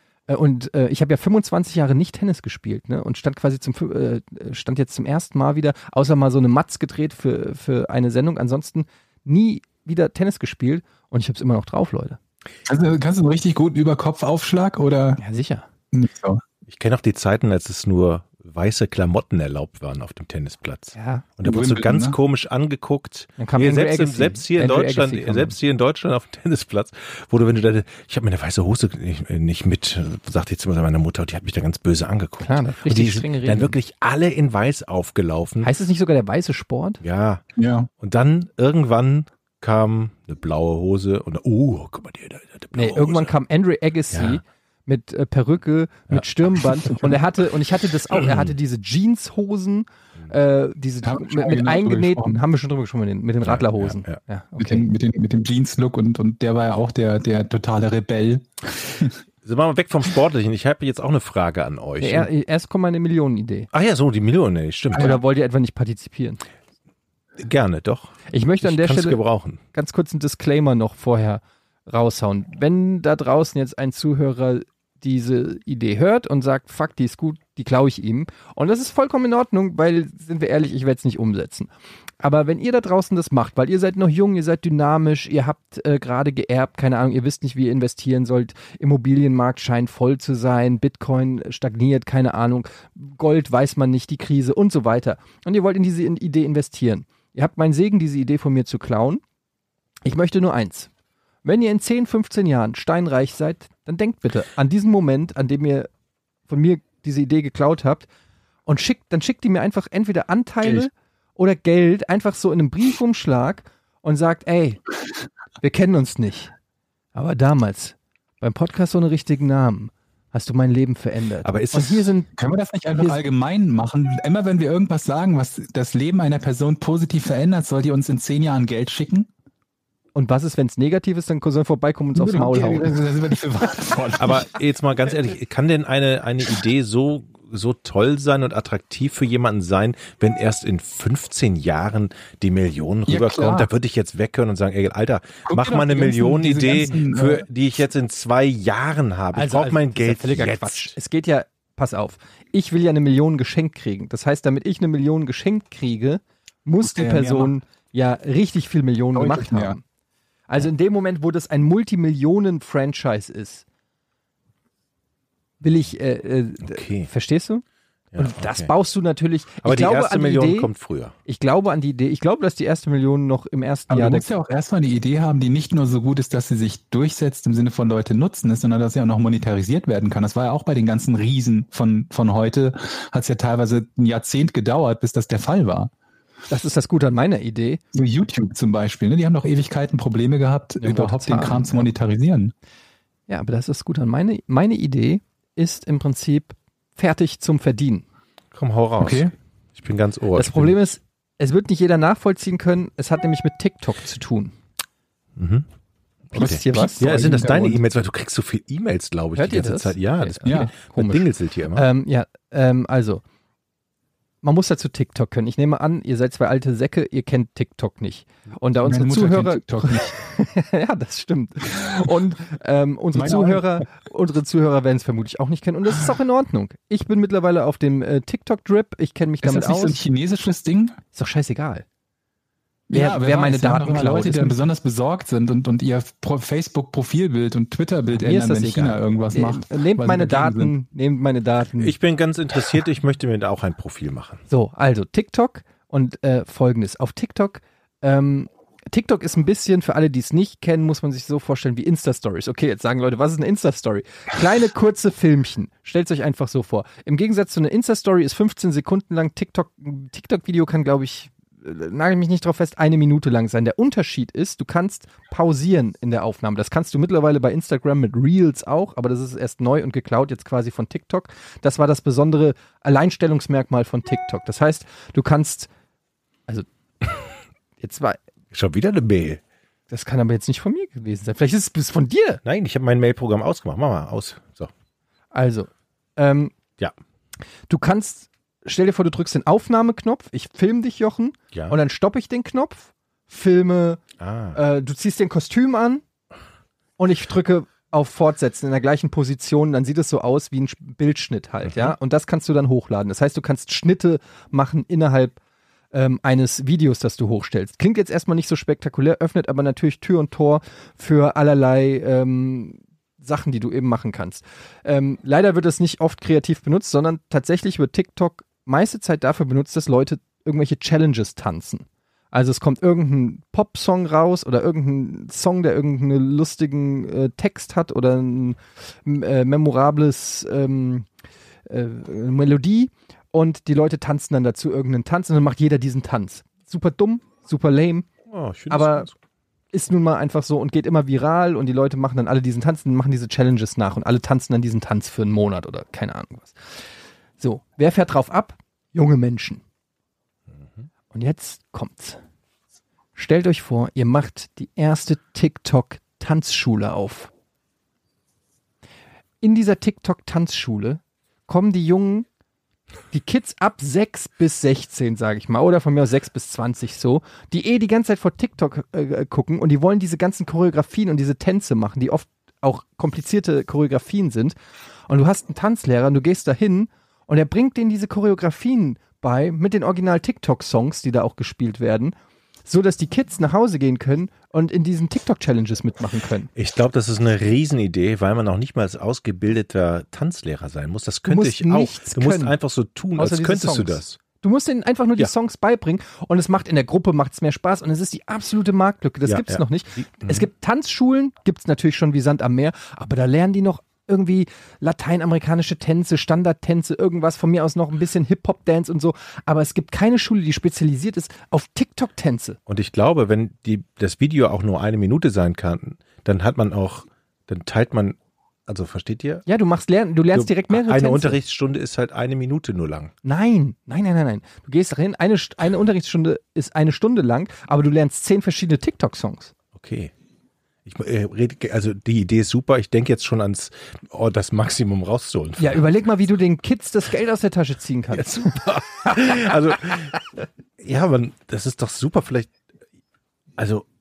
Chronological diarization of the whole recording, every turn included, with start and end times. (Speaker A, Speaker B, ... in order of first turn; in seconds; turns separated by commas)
Speaker A: 0.3-12.2, Speaker B: 12.7-15.2, Speaker A: 15.2-15.7, Speaker B: 15.9-16.4, Speaker C: 16.7-35.7, Speaker A: 21.0-21.3, Speaker B: 21.4-22.2, Speaker A: 23.4-25.6, Speaker A: 32.4-33.8, Speaker A: 35.6-37.0, Speaker C: 37.0-37.4, Speaker B: 37.6-37.9, Speaker C: 38.0-43.3, Speaker A: 42.7-54.9, Speaker C: 44.1-44.4, Speaker C: 48.1-48.5, Speaker B: 51.0-52.4, Speaker C: 53.4-54.2, Speaker B: 54.6-59.1, Speaker C: 59.4-62.3, Speaker A: 62.0-63.7, Speaker C: 63.7-65.2, Speaker A: 64.9-66.4, Speaker C: 67.4-69.6, Speaker A: 68.3-69.2, Speaker A: 69.7-99.2, Speaker A: 100.0-100.9, Speaker A: 101.4-105.9, Speaker A: 106.5-108.1, Speaker A: 108.7-114.8, Speaker A: 115.6-116.5, Speaker A: 117.2-122.3, Speaker C: 121.4-122.1, Speaker B: 122.4-129.3, Speaker A: 130.2-133.0, Speaker B: 132.2-134.6, Speaker C: 134.2-150.9, Speaker B: 143.1-143.7, Speaker B: 145.5-147.5, Speaker A: 149.3-159.8, Speaker B: 156.8-157.5, Speaker B: 159.2-159.8, Speaker A: 160.5-163.6, Speaker A: 165.6-167.6, Speaker C: 166.6-167.1, Speaker C: 168.1-168.7, Speaker A: 168.2-170.7, Speaker C: 169.6-171.2, Speaker A: 171.3-174.3, Speaker B: 173.9-185.9, Speaker A: 186.5-187.8, Speaker B: 187.9-192.5, Speaker A: 190.8-191.9, Speaker A: 193.3-198.1, Speaker C: 198.5-200.8, Speaker B: 199.0-199.3, Speaker A: 200.3-204.5, Speaker C: 205.4-205.7, Speaker C: 206.3-211.9, Speaker A: 206.3-207.1, Speaker B: 206.3-207.8, Speaker A: 209.3-213.2, Speaker B: 210.4-210.7, Speaker A: 214.4-230.0, Speaker B: 218.8-220.2, Speaker B: 223.1-223.8, Speaker B: 229.4-231.0, Speaker A: 231.1-231.8, Speaker B: 232.9-240.7, Speaker A: 232.9-234.6, Speaker A: 238.1-241.9, Speaker C: 241.8-244.4, Speaker A: 244.5-275.7, Speaker A: 277.8-278.2, Speaker C: 278.5-279.4, Speaker A: 279.9-282.4, Speaker C: 282.4-284.7, Speaker A: 285.3-286.6, Speaker A: 287.7-294.0, Speaker C: 294.2-294.6, Speaker A: 294.5-296.0, Speaker A: 297.0-305.4, Speaker A: 305.9-331.1, Speaker A: 331.7-338.1, Speaker C: 338.3-339.1, Speaker A: 338.7-339.1, Speaker A: 339.7-346.7, Speaker A: 347.4-349.6, Speaker A: 351.1-352.2, Speaker A: 353.2-357.3, Speaker A: 359.4-362.3, Speaker A: 363.1-374.6, Speaker A: 375.1-382.1, Speaker A: 382.7-386.5, Speaker C: 386.6-394.2, Speaker A: 391.3-392.5, Speaker A: 393.2-412.6, Speaker C: 399.3-400.4, Speaker C: 412.7-419.4, Speaker A: 419.5-421.4, Speaker C: 420.3-423.1, Speaker A: 423.2-429.5, Speaker C: 429.8-430.1, Speaker C: 430.9-435.9, Speaker A: 435.6-439.5, Speaker C: 438.1-440.2, Speaker C: 440.8-442.5, Speaker C: 443.6-443.9